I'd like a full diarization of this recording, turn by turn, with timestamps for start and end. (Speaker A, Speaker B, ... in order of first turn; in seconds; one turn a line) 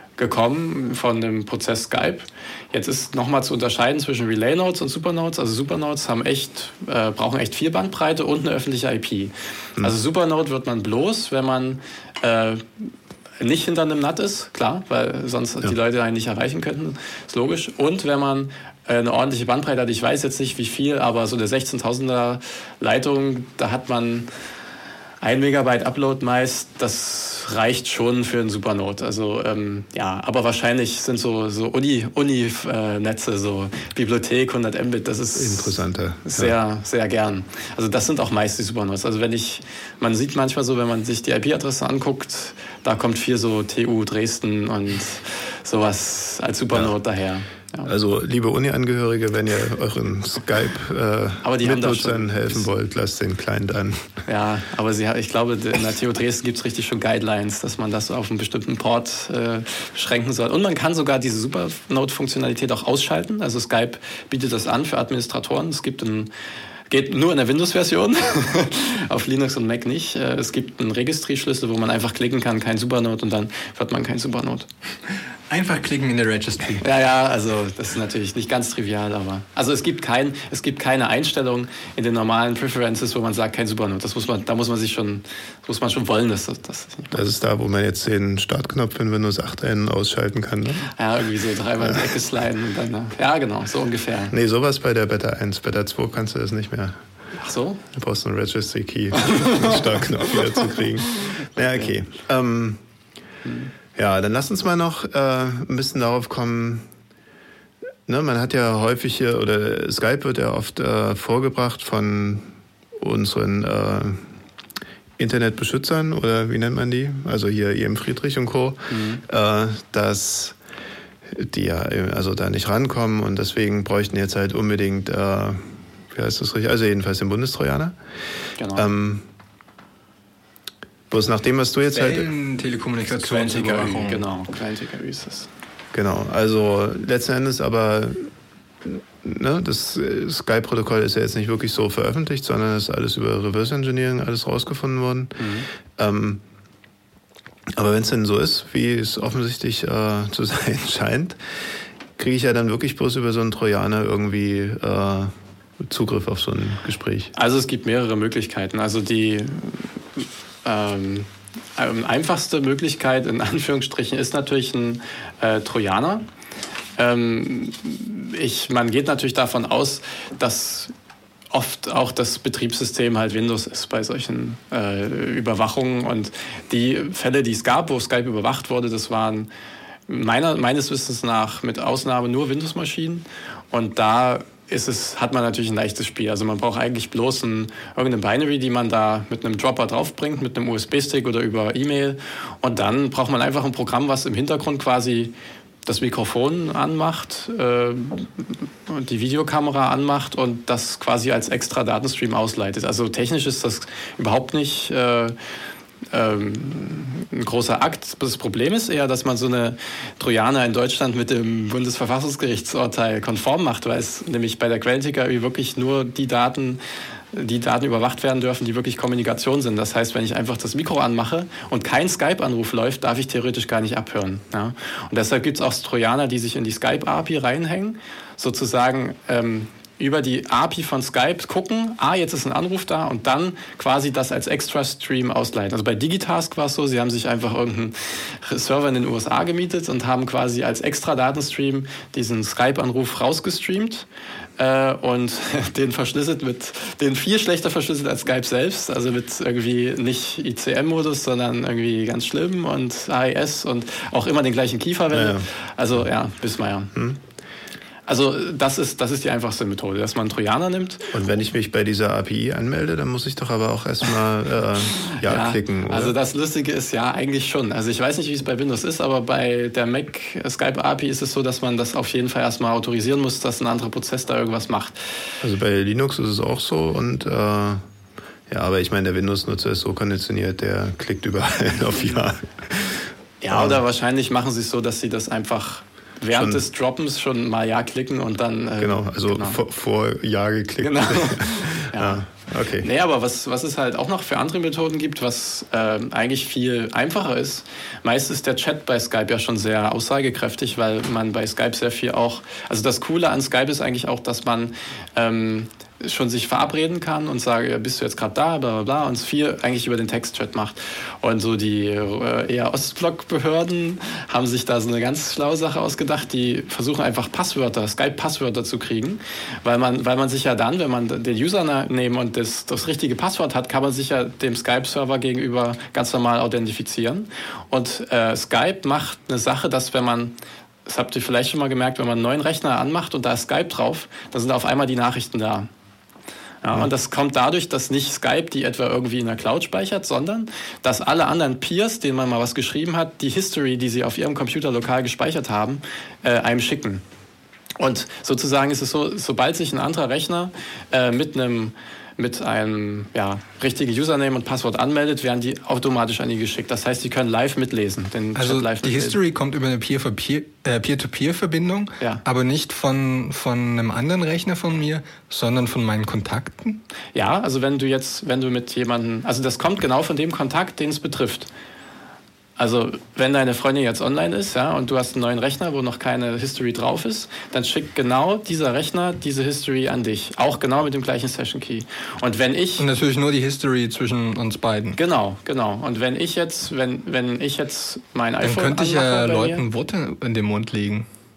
Speaker A: 0.2-24.3
Speaker A: 25.2-47.9
Speaker B: 35.3-36.5
Speaker B: 47.9-54.1
Speaker A: 51.4-52.7
Speaker A: 54.3-66.3
Speaker A: 66.9-74.7
Speaker C: 75.5-76.8
Speaker A: 76.8-87.2
Speaker B: 87.1-90.9
Speaker A: 90.9-94.3
Speaker B: 94.3-97.0
Speaker A: 97.4-97.8
Speaker B: 97.9-102.8
Speaker A: 101.6-101.9
Speaker A: 103.4-103.7
Speaker B: 103.9-106.9
Speaker B: 108.1-114.3
Speaker B: 115.2-120.6
Speaker A: 118.9-119.2
Speaker B: 121.3-128.0
Speaker A: 128.6-128.8
Speaker B: 128.7-129.3
Speaker B: 131.1-132.3
Speaker C: 131.9-134.3
Speaker A: 133.1-135.5
Speaker B: 135.9-138.3
Speaker B: 138.8-145.4
Speaker A: 145.4-145.7
Speaker B: 146.0-146.4
Speaker B: 147.7-151.4
Speaker B: 152.2-157.3
Speaker A: 157.3-166.2
Speaker A: 167.0-170.9
Speaker A: 171.5-179.5
Speaker A: 180.1-195.3
Speaker A: 195.8-205.3
Speaker A: 206.1-216.8
Speaker A: 217.3-244.1
Speaker A: 244.6-256.9
Speaker B: 255.1-255.5
Speaker A: 258.1-261.1
Speaker B: 261.1-266.1
Speaker A: 265.1-275.0
Speaker B: 275.4-277.8
Speaker B: 278.5-283.8
Speaker A: 283.4-289.6
Speaker B: 286.3-286.6
Speaker B: 288.8-292.9
Speaker A: 290.8-292.2
Speaker A: 292.8-330.3
Speaker A: 330.9-335.7
Speaker A: 336.6-347.0
Speaker A: 347.8-359.2
Speaker C: 358.3-366.8
Speaker A: 367.1-371.5
Speaker A: 372.6-382.9
Speaker C: 382.8-385.0
Speaker A: 385.0-389.6
Speaker C: 388.4-391.1